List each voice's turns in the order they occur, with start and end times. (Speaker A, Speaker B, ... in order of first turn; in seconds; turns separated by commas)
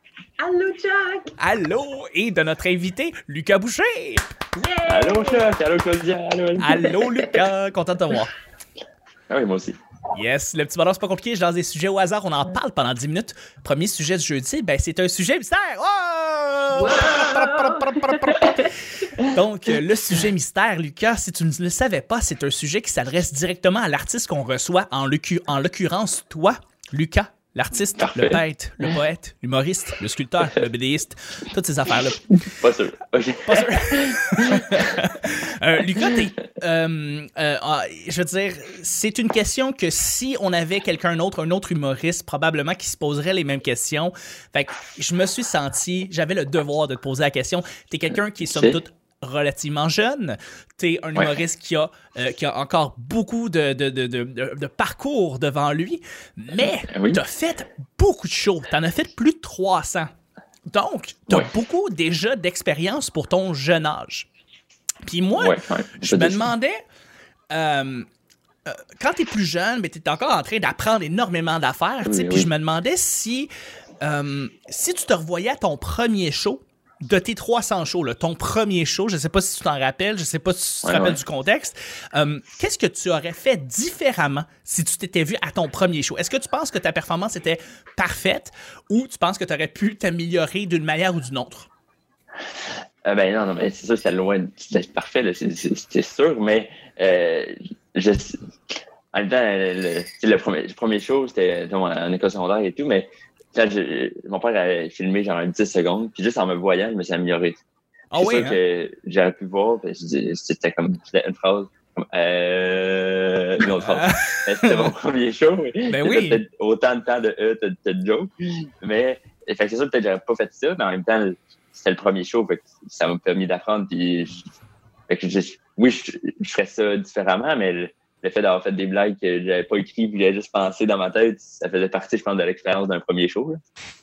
Speaker A: 0.4-1.3, Speaker B: 1.4-4.2, Speaker A: 4.6-5.5, Speaker C: 4.9-6.7, Speaker B: 6.6-8.3, Speaker A: 6.8-7.3, Speaker C: 9.3-9.8, Speaker B: 10.1-32.4, Speaker A: 16.7-18.7, Speaker C: 28.0-28.4, Speaker C: 32.6-34.8, Speaker B: 33.5-60.1, Speaker C: 48.5-48.8, Speaker C: 56.9-57.2, Speaker B: 60.7-64.3, Speaker B: 65.1-66.8, Speaker C: 65.4-66.5, Speaker B: 67.5-68.1, Speaker B: 68.7-73.5, Speaker C: 72.0-72.5, Speaker B: 74.0-91.7, Speaker C: 80.8-81.2, Speaker C: 93.0-98.4, Speaker C: 99.1-107.6, Speaker B: 108.1-108.6, Speaker C: 108.2-118.3, Speaker B: 113.8-114.9, Speaker B: 115.9-116.4, Speaker C: 118.8-124.5, Speaker C: 125.1-133.6